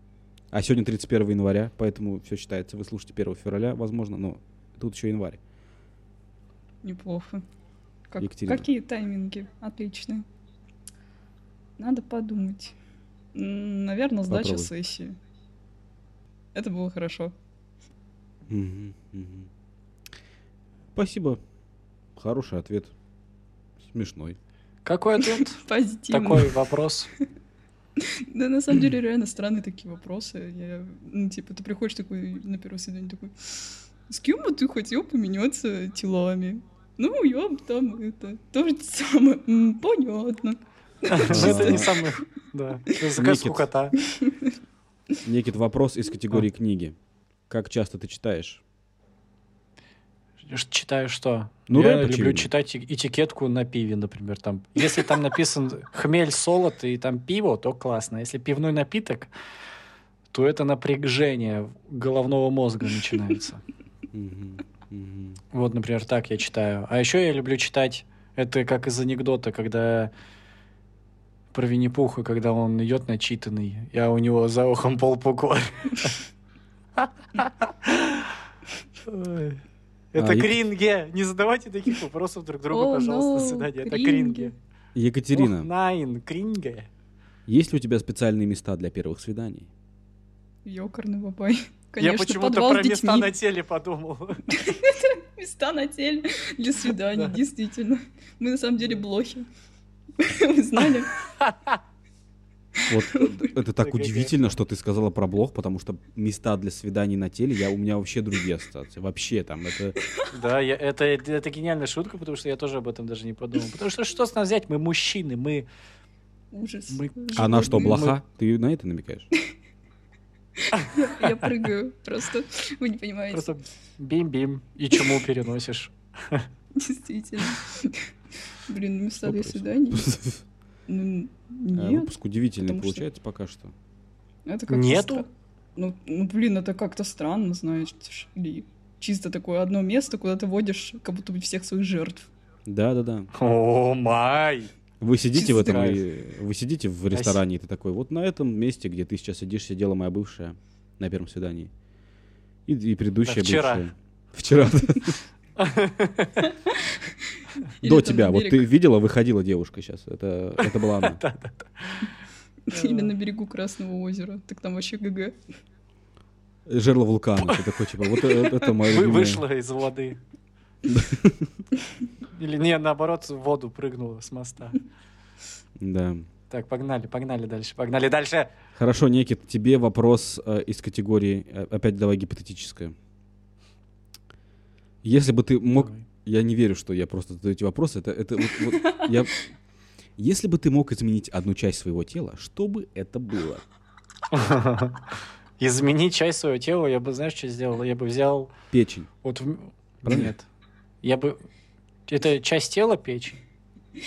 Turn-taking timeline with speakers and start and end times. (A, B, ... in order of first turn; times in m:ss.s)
0:00.5-0:05.4 A
0:06.8-0:07.4 B
0:08.1-0:10.2 B
0:08.2-0:08.6 A
0:11.8-0:12.7 B
0:13.3-0:15.2 B
0:14.3-0:14.7 A
0:16.5-0:17.3 B
0:18.5-0:19.5 A
0:21.0-0:21.4 A
0:22.2-0:22.9 A
0:23.9-0:24.4 A
0:24.8-0:25.6 C
0:25.2-0:26.6 B
0:26.1-0:27.1 C
0:28.0-0:33.3 B
0:34.1-0:42.1 B
0:41.1-0:44.0 C
0:41.2-0:41.9 A
0:43.2-0:43.7 A
0:44.1-0:44.5 B
0:45.2-0:46.9 A
0:47.5-0:48.6 A
0:50.4-0:59.3 C
0:51.7-0:52.5 A
1:00.3-1:03.6 C
1:04.1-1:05.4 A
1:05.5-1:10.1 C
1:11.5-1:16.2 C
1:17.0-1:18.4 C
1:19.0-1:19.6 C
1:20.1-1:24.5 C
1:20.2-1:20.6 A
1:22.7-1:24.5 B
1:24.9-1:25.7 A
1:25.3-1:26.9 C
1:27.5-1:29.7 A
1:30.6-1:33.3 B
1:32.0-1:34.5 C
1:34.5-1:39.5 B
1:37.0-1:37.4 C
1:40.2-1:41.2 B
1:40.8-1:41.8 C
1:42.9-1:50.0 A
1:43.8-1:44.3 C
1:50.3-1:55.7 C
1:56.5-1:58.0 B
1:56.9-1:58.2 C
1:57.3-1:59.3 A
2:00.6-2:03.5 B
2:00.7-2:01.5 C
2:03.3-2:06.5 C
2:06.7-2:08.1 B
2:08.6-2:10.0 B
2:09.2-2:10.4 A
2:10.9-2:13.0 B
2:11.7-2:13.7 A
2:14.4-2:22.3 B
2:14.7-2:15.2 C
2:22.7-2:23.3 A
2:23.3-2:24.7 C
2:25.0-2:31.7 A
2:25.3-2:26.0 C
2:27.1-2:27.4 C
2:32.7-2:35.2 A
2:33.2-2:33.9 C
2:35.6-2:36.4 C
2:36.4-2:38.7 B
2:37.8-2:41.2 A
2:40.6-2:42.1 C
2:42.7-2:45.4 B
2:42.7-2:43.1 C
2:46.7-2:49.4 A
2:48.8-2:50.2 C
2:50.8-2:51.5 A
2:52.3-2:54.8 C
2:55.8-2:56.3 A
2:56.5-2:58.5 C
2:58.8-3:02.9 A
3:05.0-3:09.4 A
3:05.8-3:06.0 C
3:10.2-3:13.6 A
3:14.3-3:18.5 C
3:18.7-3:19.1 A
3:19.2-3:20.5 C
3:20.0-3:20.3 A
3:21.0-3:21.4 C
3:22.1-3:23.4 C